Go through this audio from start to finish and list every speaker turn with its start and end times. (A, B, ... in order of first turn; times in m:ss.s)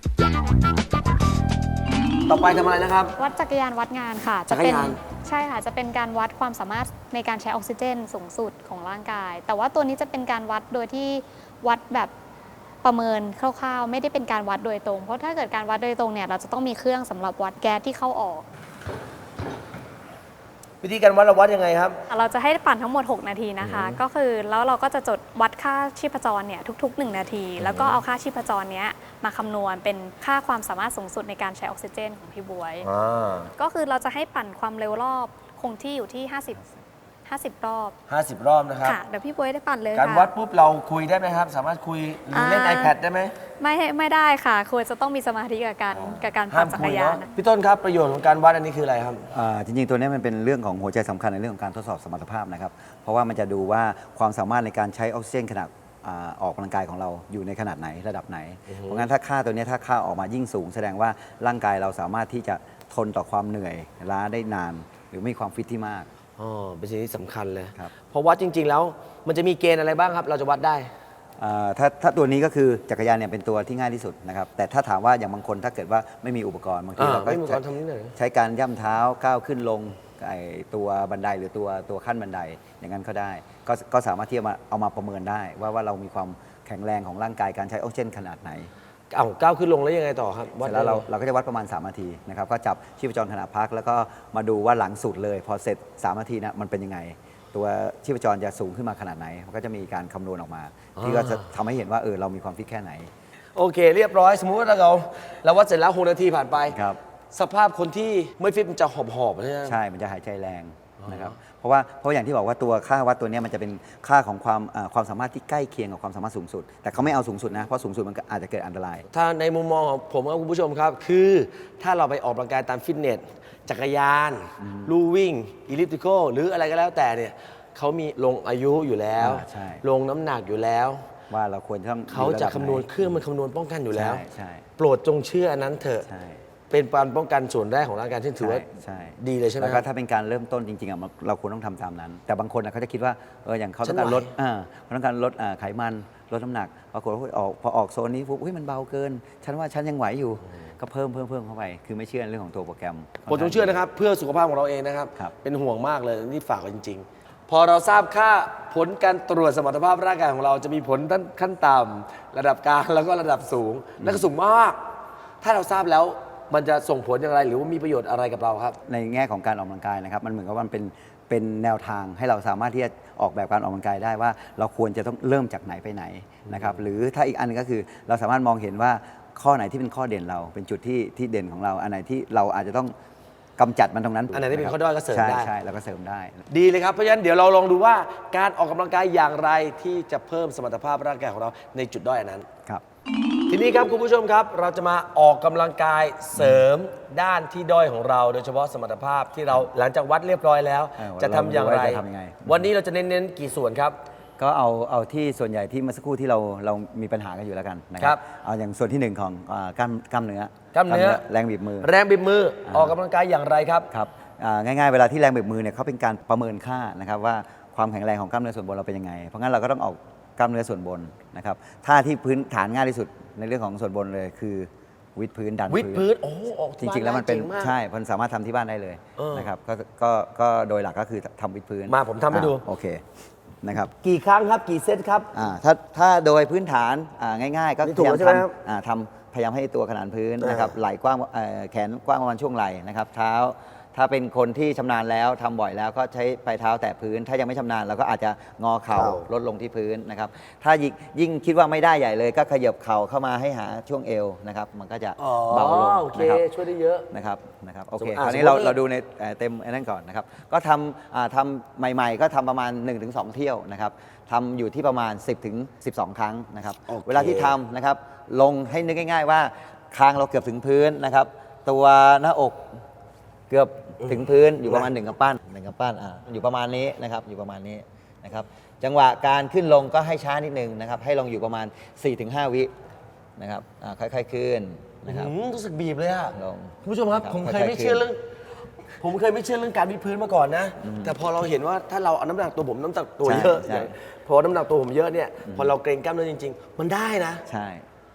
0:02.3-0:03.1 A
0:03.2-0:12.1 B
0:04.5-0:05.0 A
0:12.8-0:18.4 B
0:20.8-0:22.0 A
0:22.1-0:32.9 B
0:23.6-0:24.0 A
0:27.6-0:28.0 A
0:32.8-0:33.5 A
0:33.6-0:36.6 B
0:37.2-0:38.0 B
0:38.1-0:39.0 A
0:38.8-0:40.3 B
0:39.9-0:43.4 A
0:42.3-0:42.9 B
0:43.6-0:47.3 B
0:45.9-0:49.3 A
0:49.3-1:06.1 C
0:58.7-0:59.1 A
1:06.4-1:10.9 A
1:11.4-1:17.6 C
1:17.0-1:18.2 A
1:18.2-1:28.7 C
1:29.1-1:31.1 A
1:30.6-1:43.1 C
1:41.0-1:41.5 A
1:43.6-1:46.8 A
1:46.7-1:47.0 C
1:47.3-1:49.8 A
1:49.6-1:59.1 C
1:51.0-1:51.4 A
1:59.1-2:11.1 A
2:04.6-2:04.9 C
2:09.2-2:09.8 C
2:11.3-2:13.2 C
2:12.1-2:14.2 A
2:13.9-2:14.6 C
2:14.8-2:16.1 A
2:16.0-2:16.4 C
2:16.7-2:18.6 A
2:18.4-2:33.8 C
2:19.2-2:19.8 A
2:23.8-2:24.3 A
2:33.3-2:44.9 A
2:44.0-2:44.3 C
2:45.4-2:48.8 A
2:48.8-3:02.9 C
2:56.4-2:56.8 A
3:03.6-3:06.4 C
3:04.3-3:05.5 A
3:06.5-3:12.5 A
3:13.5-3:24.0 A
3:16.4-3:16.7 C
3:21.0-3:22.7 C
3:24.4-3:31.9 C
3:30.7-3:31.2 A
3:31.8-3:33.9 A
3:32.7-3:33.0 C
3:33.9-3:46.0 C
3:45.7-3:47.7 A
3:46.8-3:53.1 C
3:49.2-3:49.5 A
3:51.9-3:52.6 A
3:53.6-3:53.9 C
3:54.0-3:55.3 A
3:55.3-4:16.4 C
3:57.8-3:58.6 A
4:00.4-4:00.7 A
4:08.9-4:09.2 A
4:15.2-4:17.1 A
4:17.1-4:32.8 C
4:18.0-4:18.8 A
4:26.9-4:27.6 A
4:33.5-4:42.7 C
4:34.0-4:34.9 A
4:43.4-4:45.4 C
4:45.0-4:48.2 A
4:46.3-4:48.1 C
4:49.0-4:57.4 A
4:50.8-4:51.2 C
4:53.2-4:53.9 C
4:55.4-4:55.7 C
4:57.5-4:57.8 C